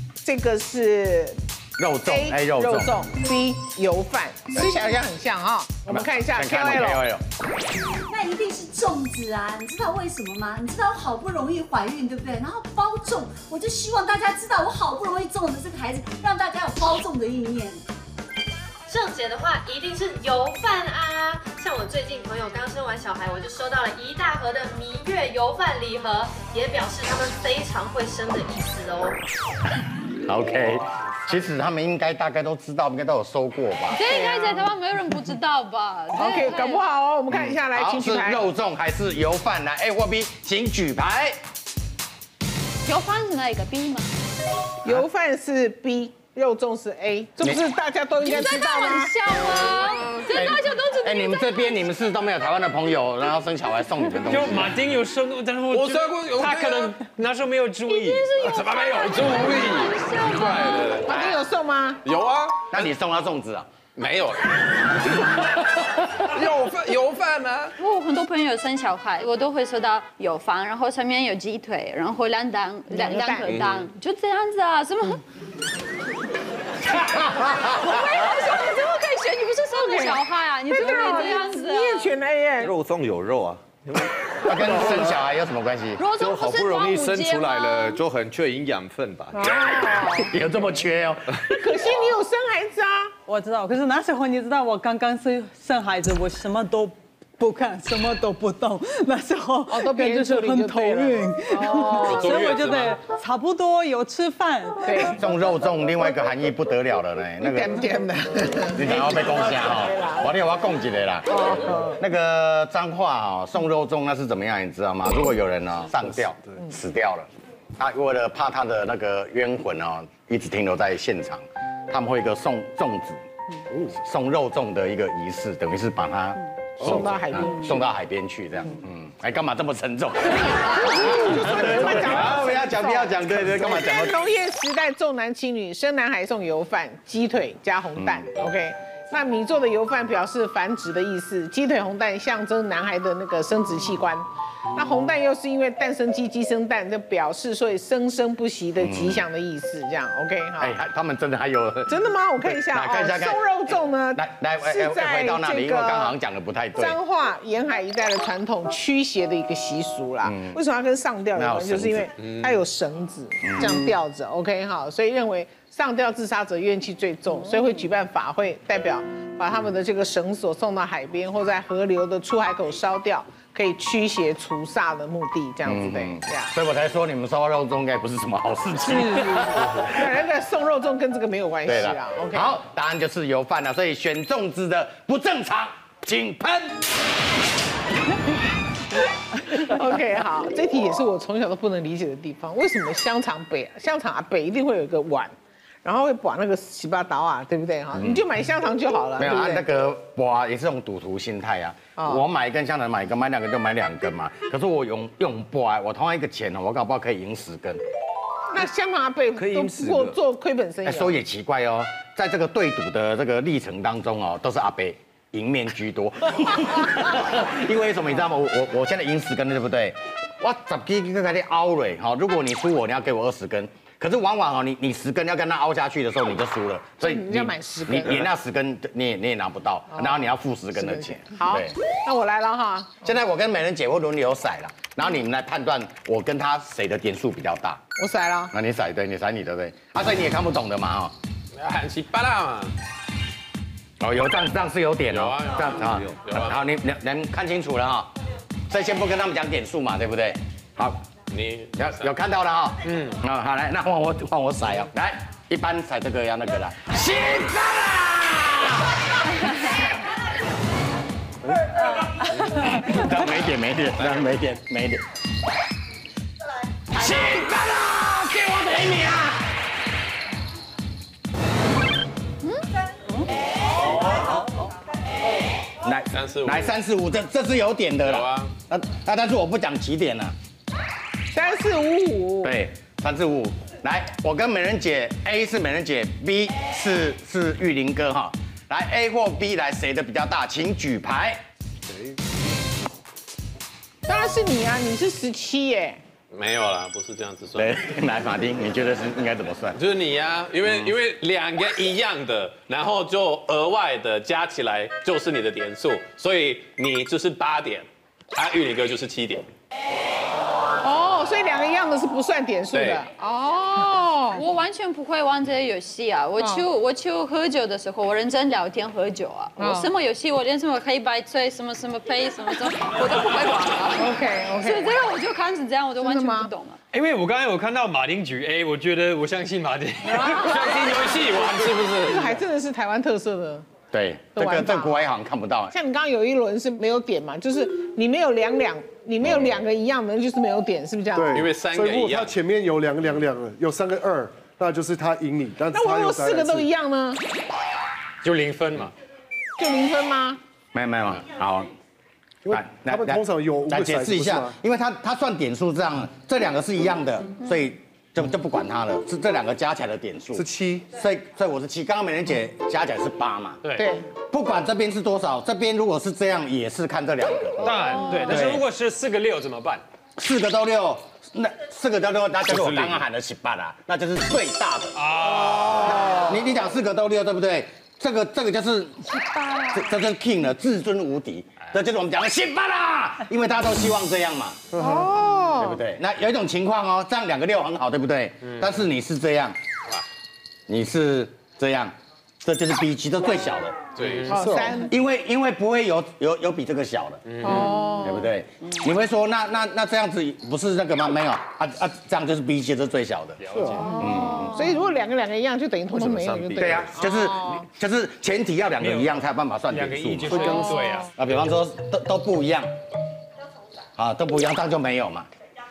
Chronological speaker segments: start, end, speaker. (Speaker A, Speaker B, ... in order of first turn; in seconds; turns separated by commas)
Speaker A: 0.2-1.4, Speaker B: 1.8-3.0, Speaker A: 2.0-7.0, Speaker B: 5.9-7.2, Speaker C: 8.1-17.8, Speaker D: 18.9-29.2, Speaker B: 30.2-34.0, Speaker E: 33.9-36.8, Speaker A: 34.1-34.7, Speaker A: 36.1-38.4, Speaker B: 37.3-41.4, Speaker E: 42.9-44.1, Speaker A: 44.8-49.6, Speaker E: 48.2-51.8, Speaker B: 50.3-54.8, Speaker F: 54.2-58.2, Speaker G: 55.7-57.0, Speaker E: 57.9-61.0, Speaker G: 58.5-61.1, Speaker A: 61.0-62.0, Speaker B: 61.1-61.4, Speaker G: 62.0-62.6, Speaker B: 62.7-63.7, Speaker G: 64.0-64.4, Speaker G: 66.3-67.7, Speaker E: 67.8-75.2, Speaker A: 72.9-73.6, Speaker E: 76.9-82.1, Speaker A: 79.7-82.7, Speaker H: 82.6-83.6, Speaker B: 84.4-86.0, Speaker H: 84.7-85.1, Speaker E: 86.0-88.0, Speaker H: 86.2-89.4, Speaker A: 89.3-90.3, Speaker B: 89.5-91.3, Speaker A: 91.5-93.1, Speaker I: 93.3-105.1, Speaker A: 99.7-102.4, Speaker G: 102.0-102.9, Speaker A: 104.8-105.2, Speaker B: 105.0-107.8, Speaker A: 107.4-110.3, Speaker B: 108.7-111.3, Speaker A: 111.3-112.0, Speaker B: 112.0-117.3, Speaker B: 117.8-123.2, Speaker B: 123.9-134.2, Speaker A: 126.8-127.8, Speaker A: 130.6-150.7, Speaker B: 138.0-138.2, Speaker B: 148.8-149.2, Speaker B: 150.6-151.9, Speaker A: 151.9-156.2, Speaker B: 152.5-157.0, Speaker A: 156.8-176.5, Speaker B: 160.2-160.6, Speaker B: 161.3-162.1, Speaker B: 163.4-163.8, Speaker B: 175.7-179.9, Speaker A: 179.8-182.6, Speaker B: 181.7-186.8, Speaker A: 189.4-199.6, Speaker B: 197.9-198.2, Speaker B: 199.2-207.8, Speaker A: 202.0-202.2, Speaker A: 208.5-211.1, Speaker H: 209.4-210.0, Speaker B: 210.8-231.8, Speaker A: 227.0-228.3, Speaker A: 230.7-233.1, Speaker B: 233.0-237.8, Speaker A: 238.0-238.5, Speaker B: 238.5-241.1, Speaker G: 241.6-242.7, Speaker B: 244.0-248.1, Speaker G: 245.1-246.6, Speaker B: 248.7-251.0, Speaker G: 251.3-252.1, Speaker B: 251.8-259.0, Speaker G: 252.9-253.2, Speaker B: 262.5-265.0, Speaker B: 266.9-269.4, Speaker B: 275.8-280.3, Speaker G: 276.1-276.7, Speaker G: 278.0-278.5, Speaker A: 281.3-282.5, Speaker B: 282.4-291.4, Speaker A: 294.1-296.0, Speaker G: 296.3-297.7, Speaker B: 297.6-299.8, Speaker G: 299.7-309.4, Speaker A: 310.8-314.4, Speaker G: 312.7-313.0, Speaker E: 314.3-326.8, Speaker A: 316.4-316.6, Speaker A: 319.6-319.9, Speaker A: 323.9-325.0, Speaker A: 326.0-326.5, Speaker F: 326.9-330.5, Speaker E: 330.1-330.9, Speaker A: 330.2-330.6, Speaker G: 330.7-332.2, Speaker A: 332.0-333.7, Speaker B: 333.9-335.7, Speaker A: 334.3-335.1, Speaker A: 335.7-341.3, Speaker J: 341.1-346.7, Speaker G: 341.3-342.3, Speaker A: 345.7-347.2, Speaker A: 349.6-350.4, Speaker B: 350.7-351.7, Speaker J: 352.4-354.5, Speaker B: 352.5-363.6, Speaker J: 360.3-360.9, Speaker A: 363.8-364.0, Speaker B: 364.3-368.6, Speaker F: 367.6-369.8, Speaker A: 367.7-368.4, Speaker B: 370.2-379.1, Speaker F: 374.9-375.9, Speaker A: 375.4-376.2, Speaker B: 379.6-384.6, Speaker J: 384.7-385.1, Speaker A: 384.8-385.8, Speaker B: 385.6-389.6, Speaker B: 390.7-393.8, Speaker G: 394.0-394.3, Speaker J: 394.2-394.8, Speaker A: 394.3-394.9, Speaker B: 394.9-404.6, Speaker G: 397.3-397.5, Speaker A: 397.4-398.3, Speaker G: 403.4-403.9, Speaker A: 403.8-407.6, Speaker H: 405.9-406.6, Speaker B: 406.6-412.7, Speaker F: 408.8-409.1, Speaker F: 409.7-411.1, Speaker J: 410.2-410.7, Speaker B: 413.9-415.3